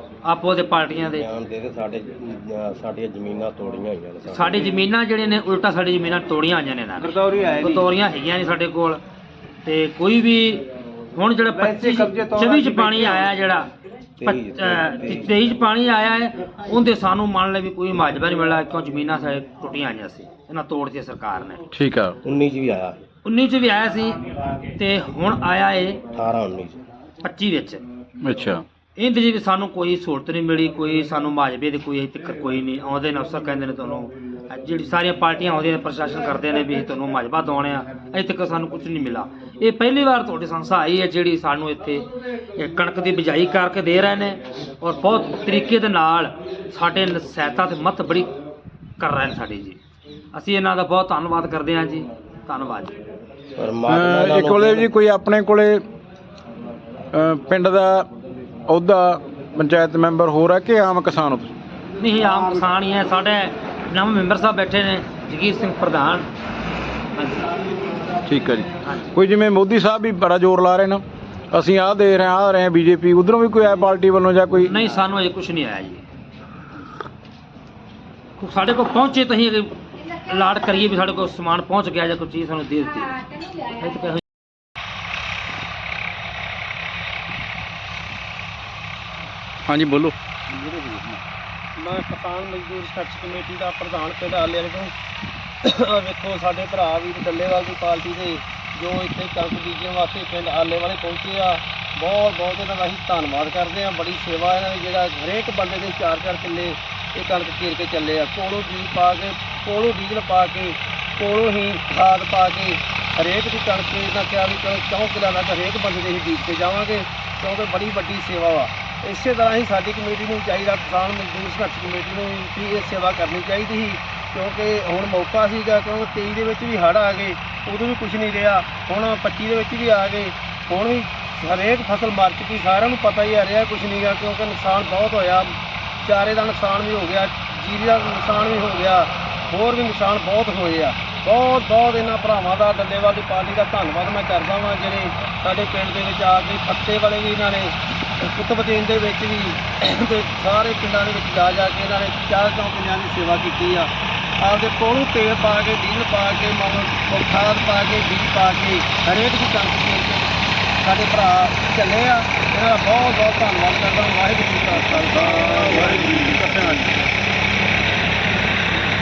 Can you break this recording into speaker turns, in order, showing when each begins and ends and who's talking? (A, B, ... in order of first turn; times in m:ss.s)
0:00.2-0:01.3 A
0:01.2-0:04.7 B
0:04.2-0:09.0 A
0:07.3-0:07.8 C
0:09.6-0:13.7 A
0:11.5-0:13.3 C
0:14.2-0:15.3 B
0:14.2-0:21.6 A
0:21.7-0:22.2 D
0:22.2-0:23.0 B
0:23.2-0:24.2 A
0:24.8-0:26.0 A
0:26.1-0:26.8 B
0:27.2-0:27.8 A
0:28.2-0:28.6 D
0:29.0-0:48.3 A
0:49.0-0:49.8 A
0:50.3-0:53.0 A
0:53.6-0:54.9 B
0:53.9-0:55.8 D
0:57.1-0:58.1 D
0:58.7-1:01.5 D
1:02.0-1:06.3 A
1:07.1-1:07.5 A
1:08.3-1:14.8 D
1:08.8-1:09.1 A
1:14.6-1:16.0 A
1:18.4-1:24.2 A
1:29.7-1:30.1 D
1:30.5-1:31.0 A
1:31.8-1:34.9 C
1:35.6-2:40.2 C
2:40.8-2:46.8 C
2:44.9-2:47.0 D